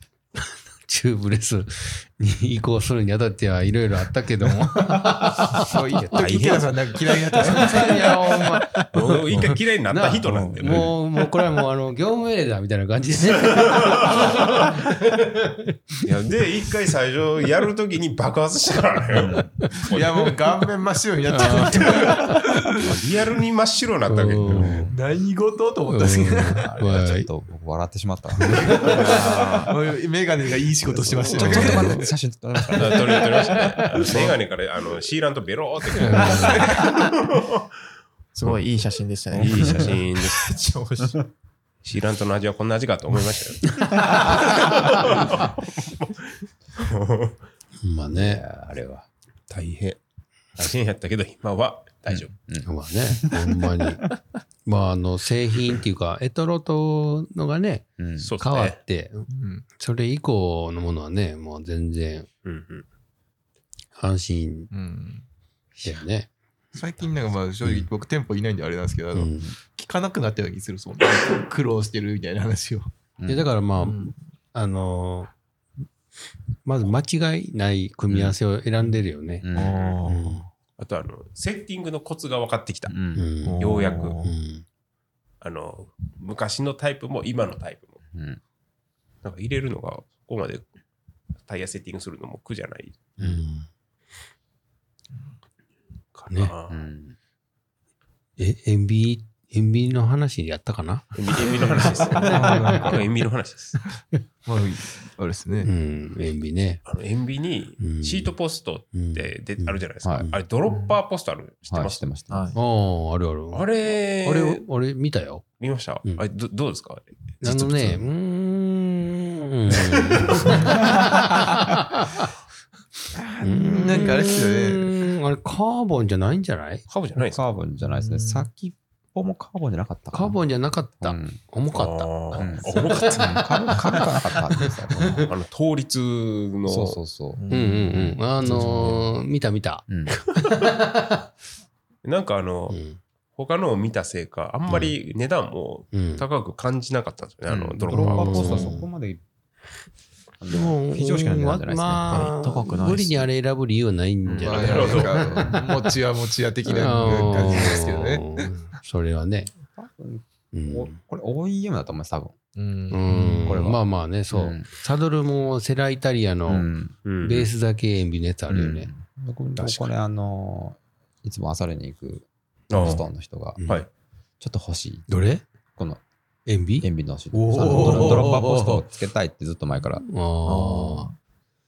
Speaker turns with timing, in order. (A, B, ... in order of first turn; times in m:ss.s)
0:00.4-0:06.2 A
0:04.4-0:08.8 B
0:06.1-0:06.8 C
0:07.4-0:16.0 A
0:08.9-0:10.9 C
0:10.2-0:10.9 D
0:13.6-0:14.7 C
0:16.0-0:20.3 C
0:19.1-0:19.5 D
0:19.6-0:19.9 A
0:19.8-0:22.9 B
0:21.3-0:22.4 A
0:22.8-0:24.9 C
0:24.1-0:24.9 A
0:24.4-0:24.9 D
0:24.9-0:26.7 B
0:25.9-0:27.3 A
0:26.5-0:29.2 D
0:28.4-0:29.2 A
0:28.6-0:32.1 B
0:29.1-0:29.7 E
0:30.9-0:34.3 D
0:31.3-0:32.0 A
0:32.7-0:37.7 C
0:34.0-0:34.3 B
0:36.0-0:36.7 A
0:36.1-0:37.1 B
0:38.3-0:41.1 E
0:39.3-0:40.8 C
0:39.5-0:39.8 D
0:41.8-0:47.4 C
0:47.8-0:48.4 A
0:48.1-0:49.0 D
0:49.5-0:50.0 C
0:50.6-0:52.3 C
0:52.1-0:53.5 D
0:52.6-0:54.0 A
0:54.6-0:57.8 A
0:58.0-0:58.3 D
0:58.2-0:58.8 C
0:58.4-1:02.3 A
0:59.3-0:59.6 B
1:02.4-1:02.8 C
1:04.0-1:04.7 A
1:04.7-1:05.2 B
1:05.8-1:06.3 A
1:06.7-1:12.9 B
1:09.1-1:09.5 A
1:13.2-1:13.5 D
1:13.3-1:15.3 A
1:13.8-1:14.1 B
1:16.6-1:19.4 A
1:18.1-1:18.4 D
1:19.4-1:20.0 D
1:19.5-1:20.4 B
1:19.6-1:20.0 C
1:20.0-1:20.4 A
1:20.8-1:23.0 C
1:22.9-1:23.3 D
1:23.2-1:23.6 A
1:23.4-1:24.3 B
1:23.6-1:24.2 C
1:24.2-1:24.6 A
1:25.4-1:28.0 C
1:28.1-1:28.4 D
1:29.2-1:30.7 C
1:31.4-1:33.1 C
1:33.2-1:33.7 A
1:36.1-1:36.8 C
1:36.7-1:37.2 D
1:38.4-1:42.7 A
1:41.1-1:43.8 C
1:41.4-1:43.0 B
1:44.4-1:45.7 B
1:45.6-1:46.8 A
1:46.8-1:52.1 C
1:47.8-1:48.3 A
1:48.9-1:50.4 A
1:50.0-1:50.3 D
1:51.7-1:52.5 D
1:52.3-1:52.6 E
1:52.5-1:53.7 A
1:53.5-1:54.6 C
1:54.2-1:55.4 A
1:55.6-1:57.9 C
1:57.4-2:02.2 A
2:03.2-2:05.0 B
2:03.4-2:06.8 A
2:06.9-2:07.4 C
2:07.2-2:10.4 D
2:07.8-2:08.5 E
2:10.1-2:15.3 A
2:11.0-2:11.4 D
2:11.7-2:13.4 C
2:12.4-2:15.3 D
2:15.3-2:17.0 C
2:16.6-2:19.1 D
2:17.3-2:17.8 E
2:17.5-2:21.2 A
2:19.9-2:20.2 D
2:22.0-2:22.8 C
2:22.7-2:23.0 A
2:23.3-2:28.8 C
2:24.7-2:24.9 D
2:25.9-2:26.2 A
2:27.5-2:29.2 D
2:27.9-2:28.8 A
2:30.4-2:32.3 D
2:30.5-2:35.9 A
2:32.2-2:33.2 E
2:34.2-2:35.5 D
2:34.4-2:38.5 B
2:34.4-2:35.3 C
2:36.6-2:39.5 A
2:37.2-2:37.5 D
2:39.8-2:42.4 D
2:40.5-2:41.0 A
2:42.6-2:43.5 B
2:42.9-2:46.7 A
2:43.4-2:44.7 D
2:46.5-2:47.0 D
2:47.0-2:47.5 C
2:47.2-2:48.9 A
2:48.5-2:53.6 D
2:49.6-2:49.9 C
2:52.7-2:53.1 C
2:53.6-2:53.8 A
2:54.4-2:55.1 D
2:55.1-2:55.4 A
2:55.8-2:56.0 D
2:56.4-2:56.9 A
2:56.8-3:00.0 D
2:57.3-2:58.8 B
2:57.6-2:58.3 A
3:00.1-3:01.1 A
3:00.5-3:01.0 B
3:00.6-3:01.0 E